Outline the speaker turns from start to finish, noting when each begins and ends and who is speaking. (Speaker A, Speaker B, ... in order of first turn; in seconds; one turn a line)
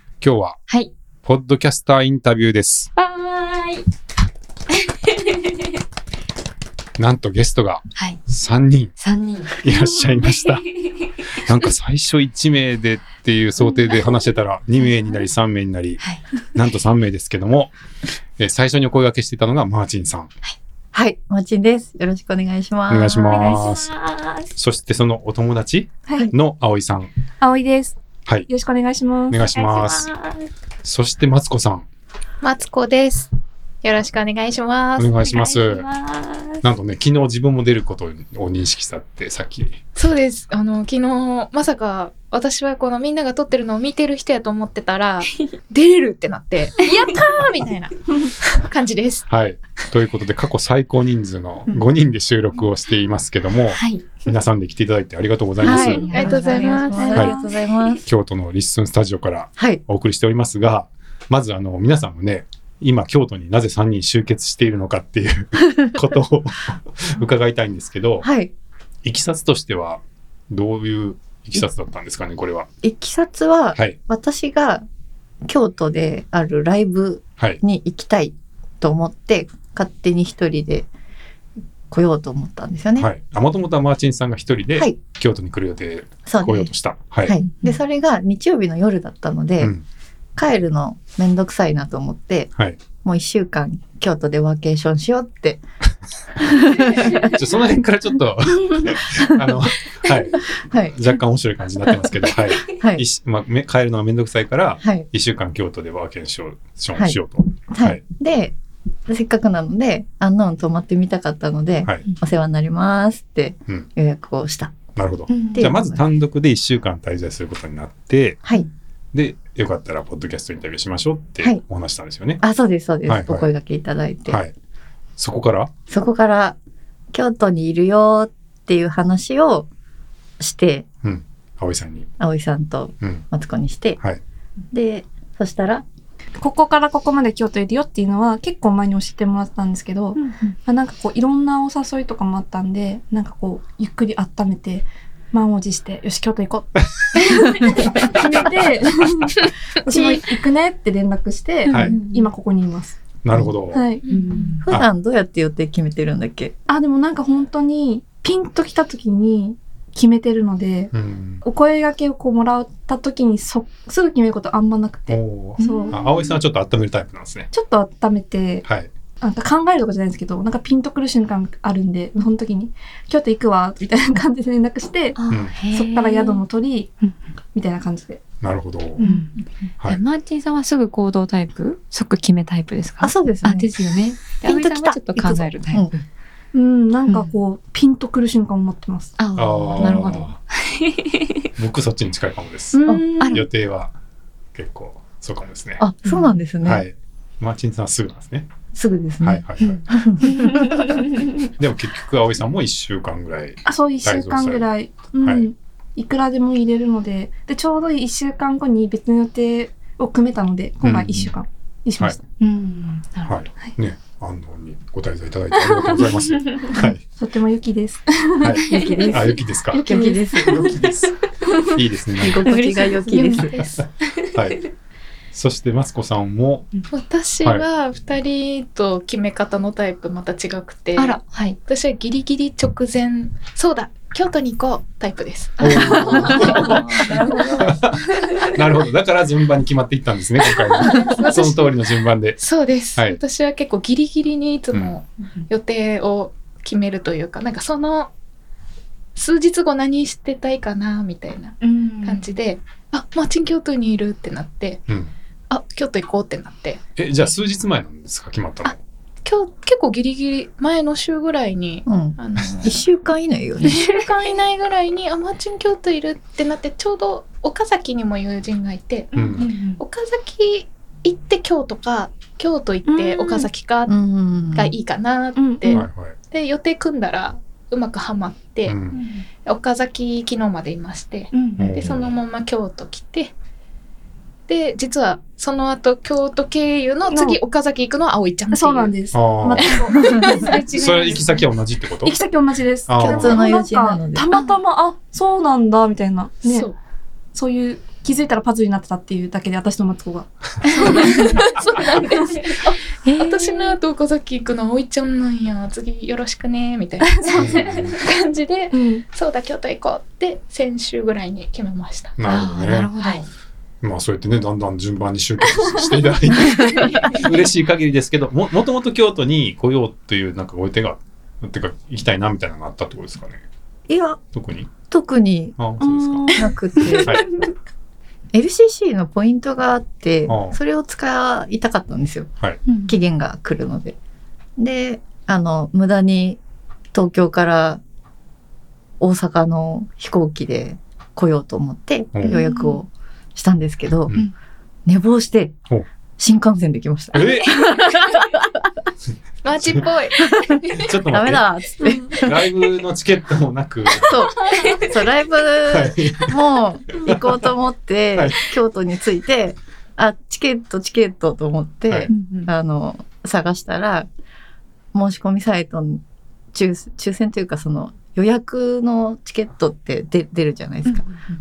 Speaker A: 0.2-0.6
Speaker A: 1.2-2.9
Speaker B: 3.0-3.8
Speaker B: 4.7-5.7
Speaker A: 7.0-8.9
Speaker B: 7.9-8.2
Speaker B: 9.0-10.9
Speaker A: 9.6-10.6
Speaker A: 11.3-16.0
Speaker B: 13.6-14.2
Speaker A: 16.5-17.7
Speaker A: 18.4-20.3
Speaker C: 20.9-23.6
Speaker A: 22.9-23.9
Speaker B: 23.3-24.5
Speaker A: 24.5-27.1
Speaker D: 27.4-27.9
Speaker D: 28.5-29.4
Speaker A: 29.3-30.1
Speaker B: 29.5-30.4
Speaker A: 30.8-31.9
Speaker E: 32.4-33.3
Speaker E: 33.8-35.1
Speaker A: 35.0-35.9
Speaker B: 35.2-36.6
Speaker A: 36.6-39.8
Speaker E: 40.0-49.2
Speaker A: 49.3-56.1
Speaker B: 53.7-54.2
Speaker C: 55.6-58.0
Speaker B: 55.6-57.3
Speaker D: 56.0-57.5
Speaker E: 56.1-57.0
Speaker A: 58.0-68.3
Speaker C: 59.6-59.8
Speaker C: 68.2-68.5
Speaker A: 69.0-72.7
Speaker C: 72.8-74.8
Speaker C: 75.5-80.9
Speaker C: 81.9-83.1
Speaker A: 83.0-87.4
Speaker C: 86.2-86.7
Speaker C: 87.2-89.7
Speaker C: 90.3-95.6
Speaker C: 96.4-97.3
Speaker A: 97.2-108.0
Speaker C: 99.1-101.0
Speaker C: 101.8-103.0
Speaker C: 107.7-108.5
Speaker C: 109.1-114.8
Speaker A: 114.9-118.4
Speaker B: 115.3-115.7
Speaker C: 115.5-116.0
Speaker A: 119.1-122.4
Speaker C: 122.4-124.4
Speaker A: 123.0-123.5
Speaker A: 124.3-124.5
Speaker A: 125.2-125.7
Speaker C: 125.9-126.5
Speaker C: 127.1-129.7
Speaker C: 130.4-130.8
Speaker A: 131.0-132.1
Speaker C: 132.2-134.0
Speaker C: 134.7-135.8
Speaker D: 136.4-152.9
Speaker B: 140.2-140.5
Speaker C: 149.9-150.2
Speaker B: 151.7-152.3
Speaker A: 151.7-152.0
Speaker A: 153.2-153.9
Speaker D: 153.7-154.1
Speaker B: 154.1-154.7
Speaker C: 154.6-156.5
Speaker D: 156.7-166.0
Speaker A: 160.9-161.4
Speaker A: 165.1-167.5
Speaker B: 165.6-165.9
Speaker D: 167.5-168.7
Speaker A: 168.6-168.9
Speaker D: 169.2-175.2
Speaker B: 175.1-176.4
Speaker A: 175.3-175.5
Speaker D: 175.7-177.0
Speaker D: 177.5-178.2
Speaker A: 178.4-179.1
Speaker B: 179.0-186.0
Speaker C: 183.0-183.7
Speaker C: 184.4-185.9
Speaker D: 186.5-189.1
Speaker B: 187.1-187.3
Speaker B: 189.2-191.2
Speaker A: 189.3-190.4
Speaker C: 189.8-190.3
Speaker A: 191.5-193.9
Speaker D: 192.7-193.4
Speaker C: 192.8-193.2
Speaker B: 193.2-193.4
Speaker A: 194.5-195.8
Speaker C: 195.8-196.8
Speaker A: 196.6-198.5
Speaker C: 198.7-200.8
Speaker A: 199.2-199.8
Speaker B: 200.4-201.0
Speaker A: 201.4-205.5
Speaker D: 203.7-212.2
Speaker A: 210.8-211.4
Speaker B: 212.4-213.3
Speaker A: 213.2-217.0
Speaker D: 217.2-220.7
Speaker A: 218.4-219.9
Speaker C: 218.6-220.8
Speaker A: 220.4-221.1
Speaker A: 221.6-222.4
Speaker C: 222.2-223.6
Speaker B: 222.4-224.3
Speaker A: 224.2-224.6
Speaker A: 225.3-226.7
Speaker E: 226.9-237.4
Speaker B: 231.0-231.6
Speaker B: 235.6-238.5
Speaker A: 235.6-242.4
Speaker E: 240.8-241.8
Speaker E: 242.4-248.1
Speaker E: 249.2-254.8
Speaker B: 251.6-252.2
Speaker E: 255.5-256.8
Speaker A: 257.0-258.8
Speaker E: 258.6-262.8
Speaker C: 261.9-263.9
Speaker E: 263.6-274.0
Speaker A: 269.1-269.5
Speaker B: 269.1-269.8
Speaker D: 272.9-273.5
Speaker C: 273.9-274.7
Speaker E: 274.5-278.8
Speaker D: 275.4-275.8
Speaker A: 275.7-276.1
Speaker A: 278.6-279.0
Speaker B: 278.9-279.2
Speaker E: 279.4-283.3
Speaker B: 281.3-281.7
Speaker A: 281.6-282.1
Speaker E: 284.5-291.4
Speaker D: 287.1-287.4
Speaker D: 288.5-290.6
Speaker A: 289.1-289.7
Speaker C: 290.0-290.4
Speaker A: 290.7-292.2
Speaker D: 292.0-296.7
Speaker A: 292.9-293.4
Speaker C: 293.0-294.3
Speaker E: 296.4-296.8
Speaker D: 297.3-302.5
Speaker E: 300.8-312.1
Speaker B: 303.0-303.8
Speaker A: 307.3-307.9
Speaker D: 308.7-309.0
Speaker A: 312.2-312.9
Speaker B: 312.2-313.2
Speaker A: 313.8-323.4
Speaker C: 316.5-316.8
Speaker C: 323.9-324.2
Speaker A: 324.3-324.7
Speaker C: 324.9-325.7
Speaker A: 325.6-326.4
Speaker D: 325.8-326.3
Speaker C: 326.3-327.2
Speaker A: 327.0-327.3
Speaker C: 328.3-332.3
Speaker A: 330.3-330.6
Speaker B: 332.7-333.0
Speaker C: 332.8-333.9
Speaker C: 334.6-336.4
Speaker C: 336.9-337.8
Speaker C: 339.0-344.1
Speaker A: 342.1-342.4
Speaker B: 342.3-342.8
Speaker C: 344.9-345.6
Speaker C: 346.2-348.7
Speaker A: 347.1-347.5
Speaker E: 349.4-350.9
Speaker A: 349.6-349.9
Speaker C: 350.2-352.4
Speaker A: 350.8-351.5
Speaker D: 351.8-352.1
Speaker A: 352.1-354.2
Speaker C: 353.9-364.1
Speaker A: 355.6-356.4
Speaker A: 356.9-357.5
Speaker A: 358.1-358.4
Speaker B: 362.1-362.5
Speaker C: 364.9-366.0
Speaker C: 366.5-371.0